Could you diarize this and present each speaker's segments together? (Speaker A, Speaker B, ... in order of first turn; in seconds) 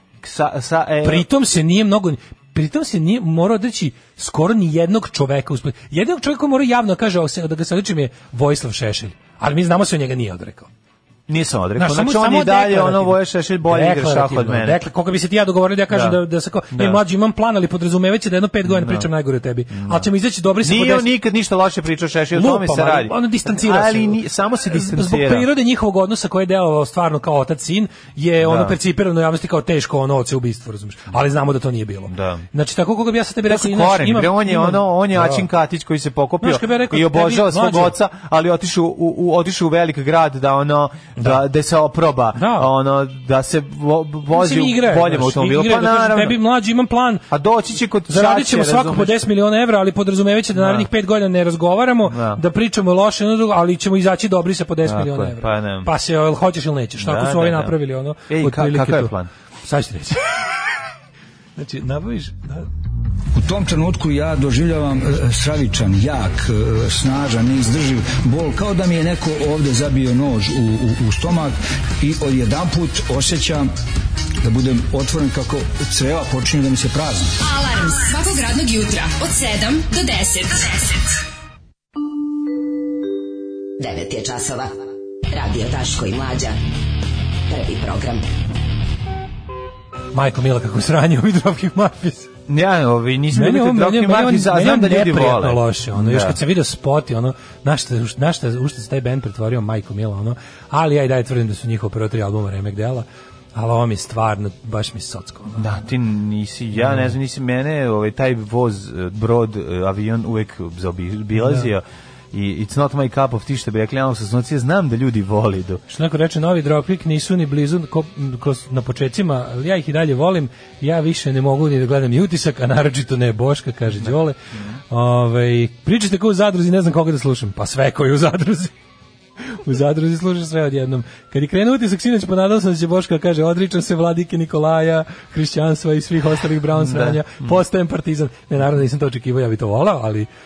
Speaker A: 0.2-1.3, 11.3-14.8, 15.9-16.2, 16.7-17.0, 18.6-19.1, 19.7-20.1, 20.6-25.5, 28.4-28.8, 32.1-32.5, 33.5-46.4, 47.3-49.2, 50.5-50.9, 52.0-52.4, 54.8-55.9, 57.0-57.7, 58.3-59.3, 92.5-96.4, 105.5-115.8, 124.0-124.8, 136.7-137.6
Speaker B: 1.0-10.7, 11.8-21.1, 22.3-35.4, 36.4-38.0, 42.3-42.7, 44.3-47.3, 48.1-59.1, 59.6-60.3, 61.6-62.7, 90.1-92.3, 93.3-105.6, 106.8-107.1, 111.4-111.7, 115.9-124.4, 124.9-128.7, 129.5-140.3
Speaker C: 63.3-73.7, 74.4-77.3
Speaker D: 77.4-81.0
Speaker E: 83.8-84.7, 85.3-86.5, 87.5-88.2